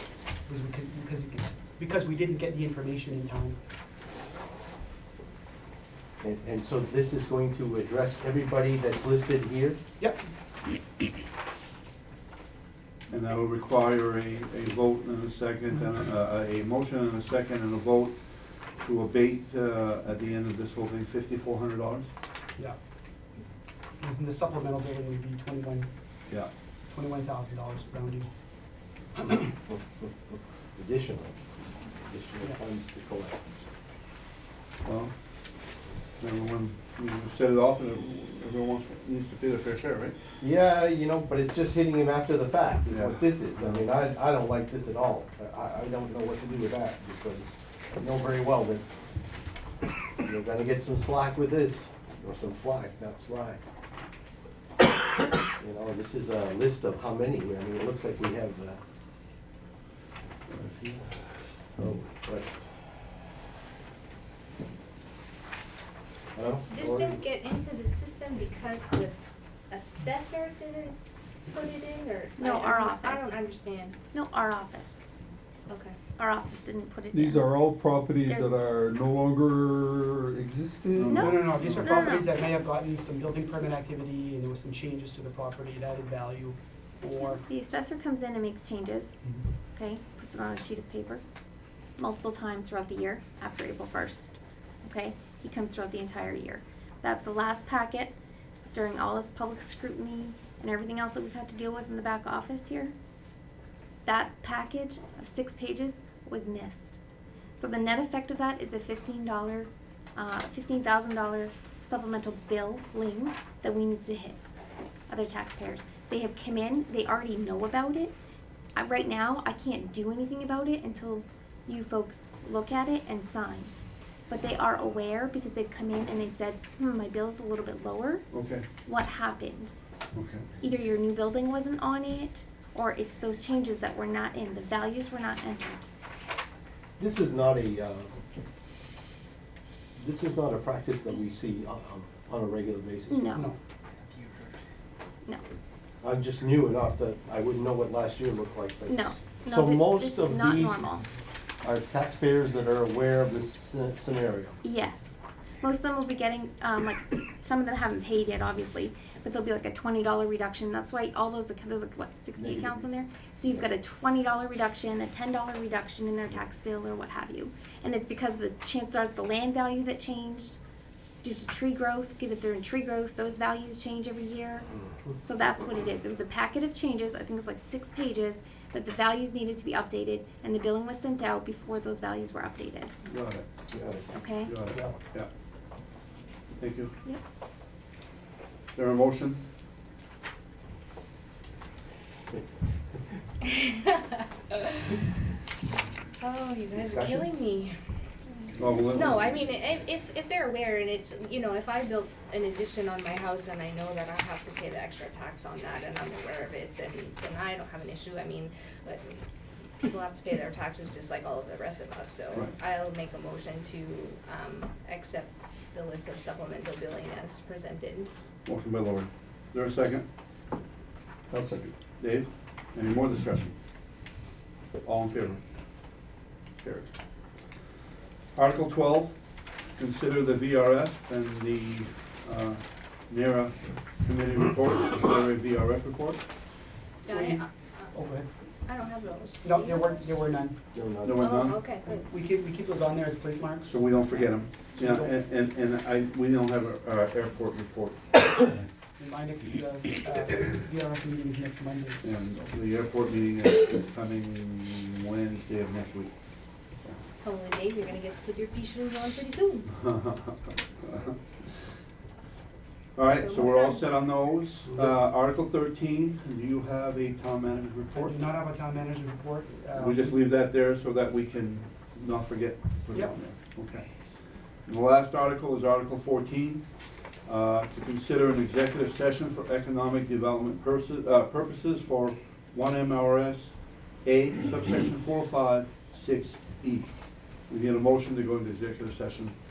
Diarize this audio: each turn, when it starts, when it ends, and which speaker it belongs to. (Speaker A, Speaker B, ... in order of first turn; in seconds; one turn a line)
Speaker A: 0.5-3.6
Speaker B: 6.2-9.8
Speaker C: 13.1-18.2
Speaker C: 18.8-22.1
Speaker A: 24.0-25.9
Speaker A: 26.9-28.3
Speaker B: 29.5-33.7
Speaker C: 34.9-35.1
Speaker C: 36.2-40.2
Speaker B: 40.4-48.9
Speaker C: 42.9-43.9
Speaker B: 50.2-53.6
Speaker B: 55.6-58.8
Speaker B: 60.5-61.2
Speaker B: 61.8-62.7
Speaker B: 66.3-67.2
Speaker D: 66.7-71.0
Speaker D: 71.5-74.0
Speaker E: 72.4-73.4
Speaker E: 74.1-75.0
Speaker D: 75.7-76.0
Speaker E: 76.2-77.5
Speaker F: 77.1-81.4
Speaker E: 78.3-78.6
Speaker C: 81.0-81.9
Speaker E: 81.0-82.3
Speaker A: 81.1-87.4
Speaker E: 87.2-89.2
Speaker E: 89.7-91.2
Speaker E: 92.0-98.2
Speaker E: 98.7-102.9
Speaker E: 104.1-107.0
Speaker E: 107.6-114.4
Speaker E: 115.1-118.1
Speaker E: 118.8-123.7
Speaker E: 124.3-128.3
Speaker C: 128.3-128.7
Speaker E: 128.8-129.8
Speaker C: 130.1-130.5
Speaker E: 130.6-135.8
Speaker B: 137.0-138.2
Speaker B: 140.0-143.2
Speaker E: 143.1-143.5
Speaker B: 146.0-150.9
Speaker E: 148.9-151.1
Speaker B: 151.6-154.6
Speaker E: 154.6-170.6
Speaker B: 162.4-162.8
Speaker E: 171.2-174.7
Speaker E: 175.2-182.9
Speaker C: 183.1-183.4
Speaker B: 183.7-184.2
Speaker E: 184.1-184.6
Speaker C: 184.4-185.3
Speaker A: 184.7-185.0
Speaker C: 186.6-186.9
Speaker C: 188.8-189.4
Speaker D: 193.5-193.9
Speaker D: 194.5-195.0
Speaker D: 196.2-197.8
Speaker B: 196.7-197.3
Speaker D: 198.3-209.2
Speaker C: 198.6-199.4
Speaker D: 209.8-218.1
Speaker C: 218.5-220.1
Speaker F: 221.3-221.7
Speaker C: 222.0-223.5
Speaker C: 224.8-225.4
Speaker C: 226.6-226.9
Speaker C: 228.4-229.2
Speaker C: 229.8-236.2
Speaker D: 237.1-237.9
Speaker A: 237.1-238.3
Speaker D: 238.7-240.1
Speaker A: 239.4-240.6
Speaker B: 240.7-241.3
Speaker C: 241.0-241.8
Speaker D: 241.2-242.1
Speaker A: 242.1-245.1
Speaker C: 243.7-248.1
Speaker A: 249.0-252.5
Speaker C: 252.0-256.1
Speaker D: 257.2-259.7
Speaker C: 259.7-261.7
Speaker C: 263.0-268.3
Speaker D: 263.0-263.9
Speaker A: 267.9-270.2
Speaker C: 269.8-273.9
Speaker C: 274.7-276.7
Speaker C: 277.3-286.9
Speaker C: 287.5-289.3